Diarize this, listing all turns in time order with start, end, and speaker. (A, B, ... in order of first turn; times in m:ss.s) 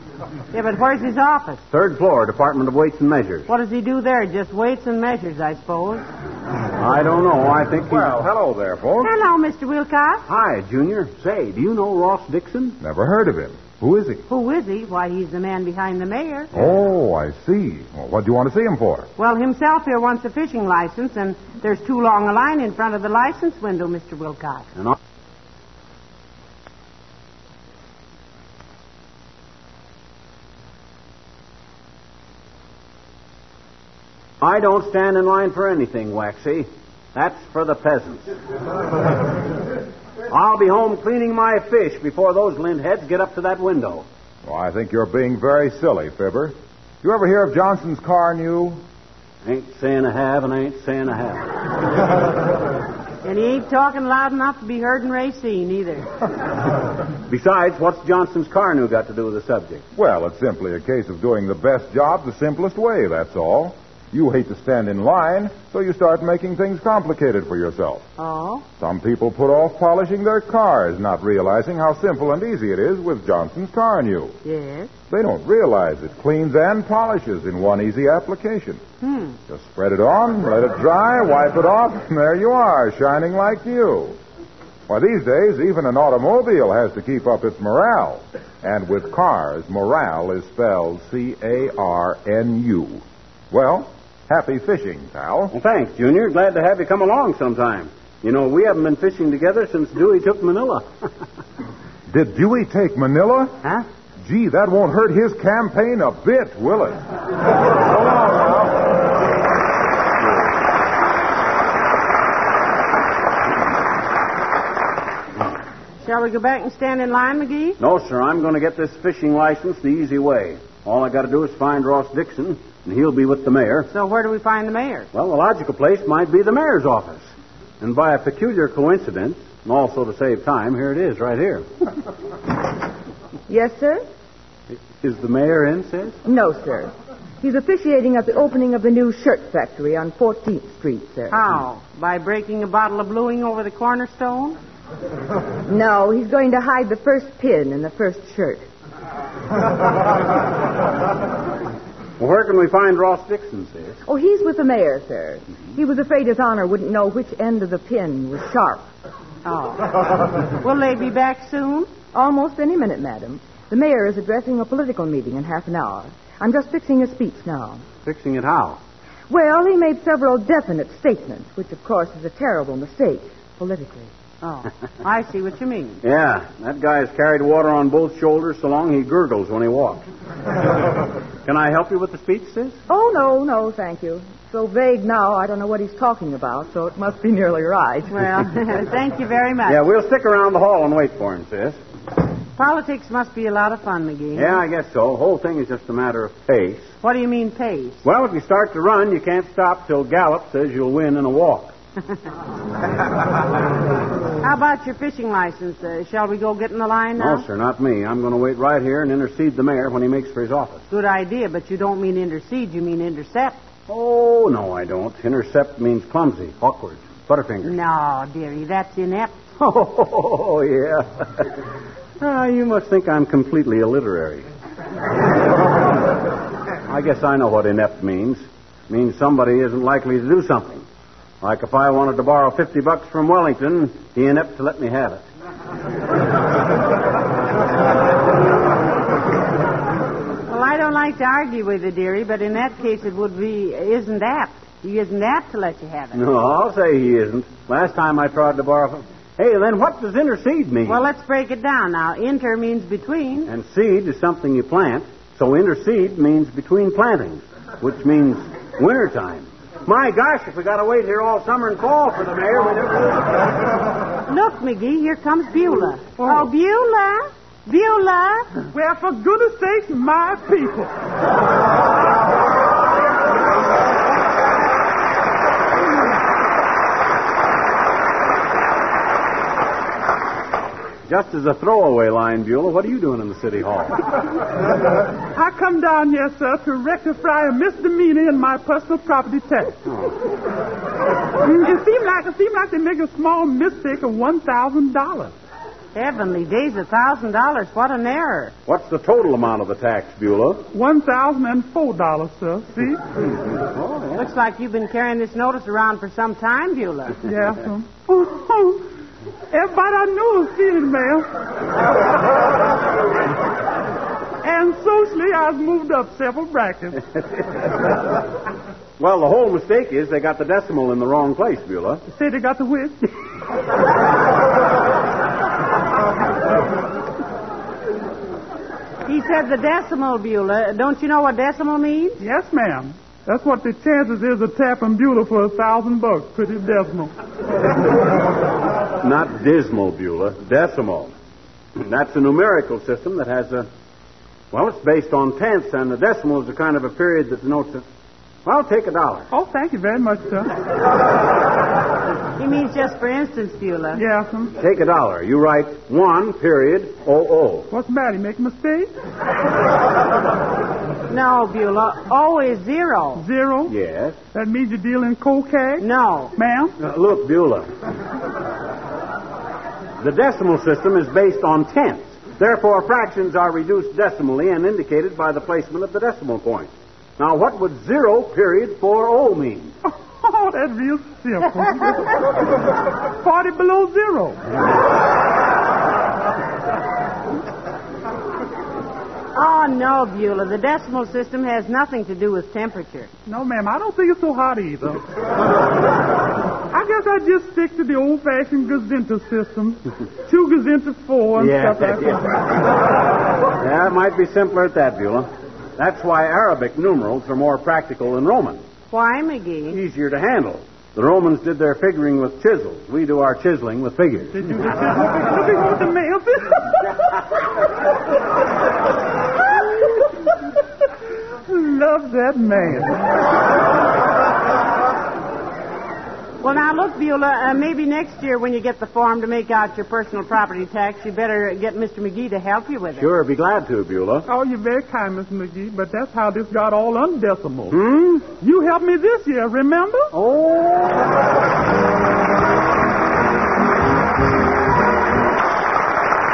0:00.5-0:01.6 A
0:01.7-0:03.5 B
0:03.5-0:06.1 A
0:06.8-0:08.2 B
0:07.9-0:09.1 C
0:09.0-0:10.2 A
0:10.3-0:12.8 B
0:12.8-0:14.2 C
0:14.3-0:16.5 A
0:16.5-0:19.1 C
0:19.2-0:24.6 A
0:34.4-0:38.3 B
0:40.3-0:44.0 B
0:44.4-0:48.8 C
0:49.4-0:51.5 B
0:53.2-0:56.1 A
0:57.3-0:59.8 B
1:00.0-1:08.0 C
1:08.2-1:08.6 A
1:08.8-1:14.4 C
1:14.4-1:14.9 A
1:15.1-1:18.8 C
1:19.0-1:19.4 A
1:19.5-1:24.2 C
1:24.9-1:35.5 C
1:35.5-1:40.9 B
1:42.1-1:43.5 C
1:44.2-1:47.0 C
1:56.0-1:57.8 A
1:57.8-2:03.9 B
2:03.9-2:05.1 A
2:05.1-2:11.6 B
2:13.5-2:14.0 D
2:14.7-2:16.2 B
2:16.3-2:16.9 D
2:17.4-2:21.3 D
2:21.3-2:24.6 A
2:25.7-2:28.6 D
2:32.2-2:34.0 B
2:34.1-2:38.8 D
2:39.4-2:41.9 A
2:42.1-2:47.8 D
2:48.0-2:48.8 B
2:49.3-2:54.1 D
2:54.4-2:56.0 A
2:56.0-3:00.0 B
3:01.4-3:02.8 B
3:02.9-3:08.0 D
3:08.1-3:09.8 A
3:09.7-3:11.8 B
3:12.6-3:14.6 A
3:14.3-3:16.9 B
3:17.0-3:18.0 A
3:18.0-3:21.7 B
3:24.4-3:27.4 A
3:27.2-3:30.8 B
3:30.9-3:33.6 A
3:33.9-3:37.7 B
3:37.6-3:39.4 A
3:39.6-3:41.6 B
3:42.2-3:44.4 B
3:46.9-3:50.8 B
3:51.4-3:55.2 B
4:00.5-4:06.2 A
4:06.1-4:11.0 B
4:10.8-4:13.5 A
4:13.5-4:23.3 B
4:24.3-4:28.6 A
4:26.2-4:26.5 E
4:28.7-4:30.9 E
4:41.1-4:44.0 B
4:45.3-4:49.8 E
4:49.9-4:50.1 B
4:51.4-4:55.3 E
4:55.9-4:58.5 A
4:58.7-5:00.7 B
5:00.7-5:03.0 E
5:03.7-5:04.2 B
5:04.1-5:07.2 A
5:07.2-5:08.8 E
5:09.5-5:11.3 E
5:14.4-5:17.0 E
5:19.0-5:22.0 B
5:22.1-5:23.1 E
5:29.0-5:32.2 A
5:32.2-5:37.1 E
5:39.0-5:41.1 B
5:41.8-5:43.7 B
5:44.5-5:47.8 B
5:48.4-5:49.3 B
5:49.3-5:50.5 E
5:52.4-5:54.0 A
5:53.9-5:54.5 E
5:54.6-5:57.7 B
5:57.7-5:58.9 E
6:01.1-6:03.2 A
6:03.2-6:03.7 E
6:03.7-6:04.2 B
6:04.3-6:06.8 E
6:05.8-6:06.3 A
6:06.8-6:07.7 B
6:10.0-6:19.7 B
6:19.9-6:22.2 E
6:23.2-6:24.4 E
6:29.3-6:33.1 A
6:33.2-6:35.0 E
6:36.7-6:42.2 E
6:41.4-6:42.5 B
6:43.6-6:48.6 B
6:48.9-6:49.8 A
6:49.7-6:54.6 B
6:54.4-6:56.8 E
7:01.5-7:03.0 E
7:06.4-7:13.1 A
7:13.0-7:14.3 B
7:14.2-7:20.1 E
7:17.7-7:18.2 B
7:20.1-7:21.1 B